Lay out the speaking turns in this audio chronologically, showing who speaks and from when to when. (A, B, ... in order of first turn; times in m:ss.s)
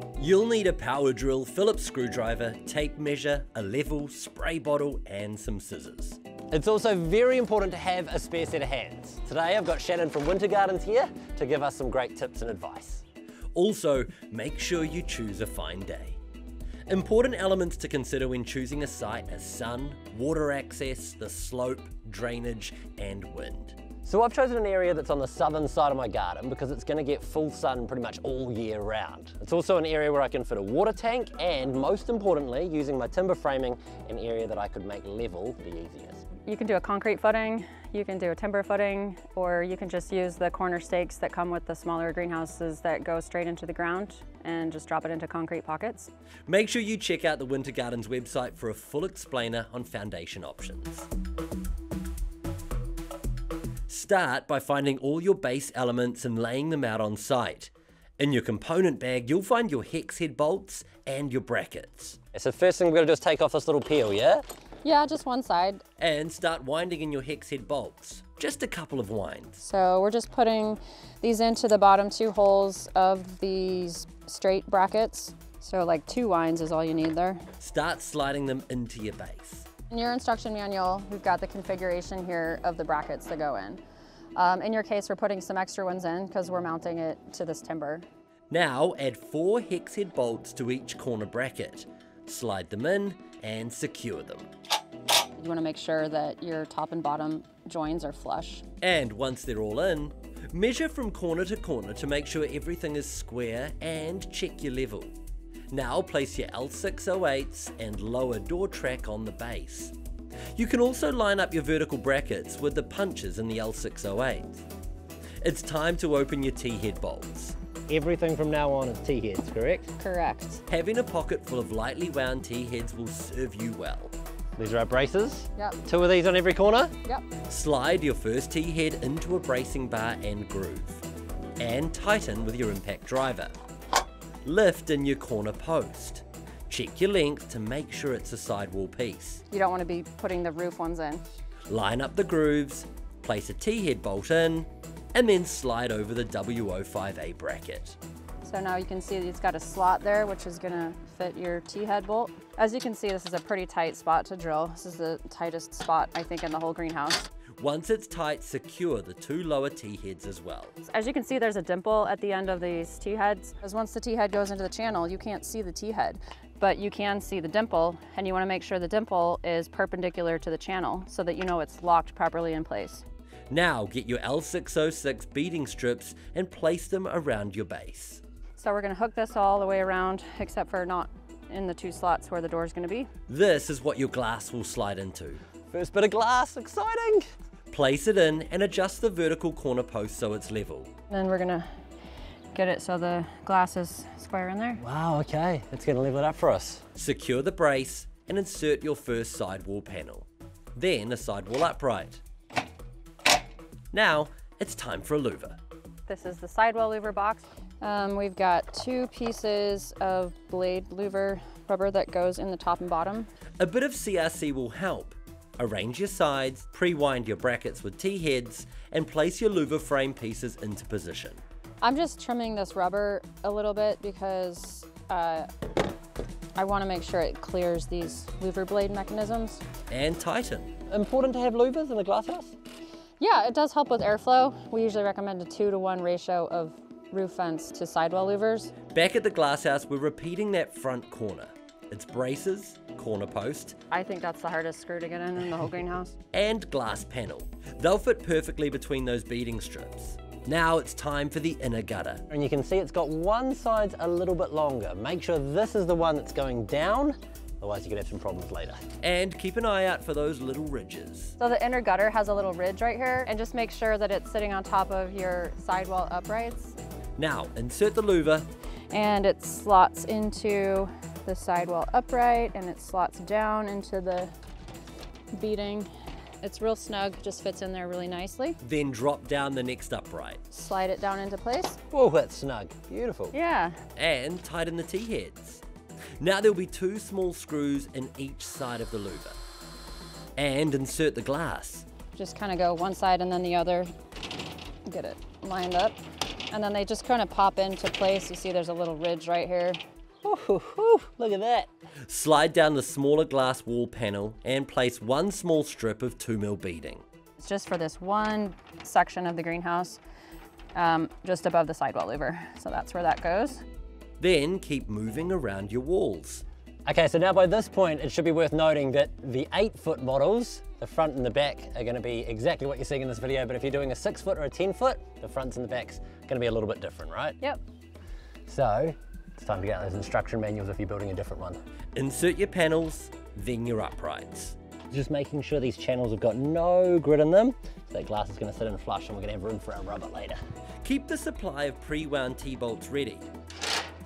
0:00.2-0:06.2 A
0:06.5-0:13.0 B
0:13.6-0:16.2 A
0:16.9-0:23.9 A
0:24.0-0:36.2 B
0:36.4-0:46.1 C
0:46.5-0:51.1 A
0:53.9-1:02.2 A
1:02.3-1:04.4 B
1:04.8-1:05.8 C
1:06.0-1:09.6 A
1:09.6-1:17.4 C
1:17.6-1:19.7 A
1:19.9-1:23.8 C
1:24.4-1:28.0 C
1:28.5-1:34.5 A
1:35.4-1:38.6 C
1:38.8-1:45.1 A
1:45.7-1:49.9 A
1:50.6-1:54.6 A
1:55.4-1:57.6 A
1:57.9-1:59.9 B
2:00.0-2:00.6 C
2:00.7-2:04.1 A
2:04.6-2:06.9 B
2:07.5-2:11.0 A
2:11.6-2:13.5 A
2:14.4-2:19.4 A
2:19.5-2:21.2 C
2:21.7-2:28.0 A
2:28.4-2:37.3 C
2:37.6-2:40.7 A
2:40.8-2:53.0 C
2:53.5-2:58.2 A
2:58.6-3:03.1 C
3:03.3-3:05.4 A
3:05.7-3:07.2 B
3:07.7-3:10.9 A
3:11.1-3:11.7 C
3:12.5-3:14.8 C
3:14.8-3:16.9 B
3:16.9-3:22.2 A
3:23.9-3:25.6 A
3:26.1-3:33.3 C
3:33.6-3:41.4 A
3:41.8-3:45.5 C
3:46.6-3:49.6 C
3:49.9-3:50.8 A
3:50.9-3:52.5 B
3:53.2-3:58.7 C
3:58.9-4:03.8 A
4:03.9-4:06.1 C
4:06.3-4:12.2 A
4:12.3-4:18.8 B
4:19.0-4:21.3 A
4:21.4-4:26.8 C
4:27.2-4:28.5 A
4:28.9-4:34.3 C
4:35.3-4:35.9 C
4:36.4-4:38.6 C
4:38.6-4:40.4 A
4:40.5-4:41.8 C
4:41.9-4:43.3 B
4:43.3-4:43.8 C
4:44.0-4:45.6 A
4:46.2-4:49.4 A
4:50.4-4:51.8 A
4:52.1-4:53.9 C
4:54.8-4:59.8 C
5:00.2-5:01.7 B
5:02.1-5:07.0 A
5:07.4-5:10.0 C
5:10.8-5:13.6 C
5:14.2-5:16.4 A
5:16.8-5:27.4 B
5:28.5-5:31.6 B
5:31.9-5:34.6 A
5:34.9-5:40.4 B
5:40.8-5:43.3 A